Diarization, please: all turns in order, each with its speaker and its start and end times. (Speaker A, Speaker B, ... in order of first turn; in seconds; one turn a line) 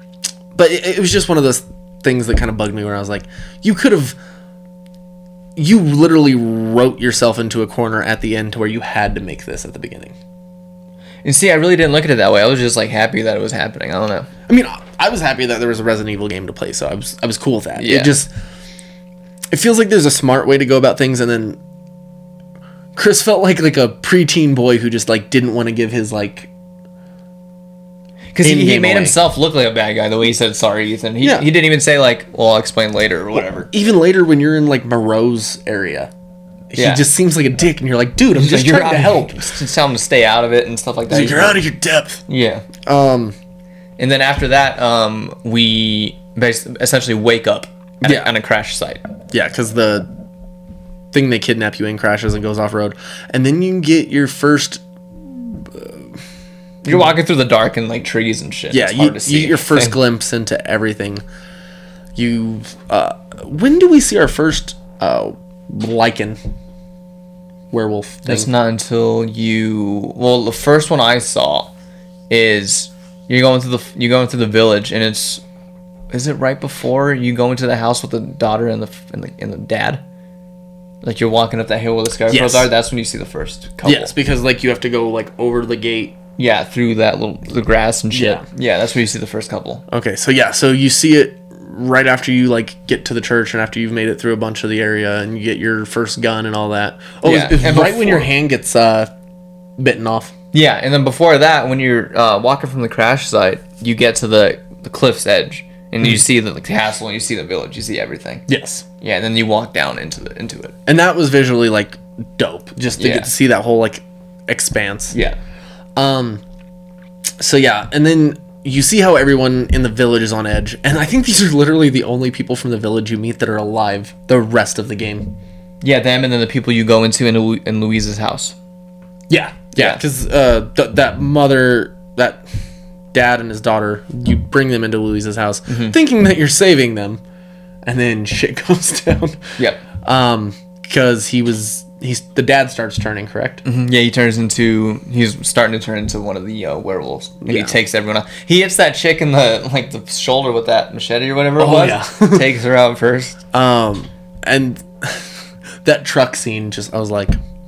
Speaker A: 0.5-4.2
Speaker A: 5.5-10.1
Speaker B: 11.2-14.3
Speaker A: 14.5-18.3
Speaker B: 17.8-18.1
Speaker A: 19.5-21.6
Speaker A: 22.9-26.5
Speaker B: 28.3-33.7
Speaker A: 28.4-29.2
Speaker A: 31.2-31.5
Speaker A: 33.3-36.1
Speaker A: 36.7-39.5
Speaker B: 36.8-37.0
Speaker B: 38.3-41.6
Speaker A: 41.1-42.2
Speaker B: 42.3-42.6
Speaker A: 42.8-43.3
Speaker B: 44.0-49.0
Speaker A: 48.0-48.3
Speaker A: 49.3-50.1
Speaker A: 51.1-56.1
Speaker B: 56.8-60.0
Speaker A: 58.7-61.2
Speaker A: 62.1-66.4
Speaker A: 67.7-68.5
Speaker B: 68.2-71.7
Speaker B: 72.3-75.4
Speaker B: 76.1-80.0
Speaker B: 81.0-84.1
Speaker A: 82.3-82.7
Speaker A: 83.8-86.2
Speaker B: 86.4-89.8
Speaker A: 88.1-88.4
Speaker A: 89.9-99.1
Speaker B: 97.2-98.3
Speaker A: 99.8-100.3
Speaker B: 100.5-108.4
Speaker A: 108.5-108.8
Speaker B: 109.0-110.7
Speaker A: 110.8-115.1
Speaker B: 113.0-113.3
Speaker B: 115.1-115.4
Speaker A: 116.0-116.4
Speaker A: 117.4-125.3
Speaker B: 125.8-128.6
Speaker A: 129.3-132.4
Speaker A: 133.1-137.2
Speaker B: 135.7-135.9
Speaker A: 137.8-143.6
Speaker B: 143.6-153.4
Speaker A: 147.4-147.8
Speaker A: 151.6-152.5
Speaker A: 153.5-155.3
Speaker A: 155.8-157.3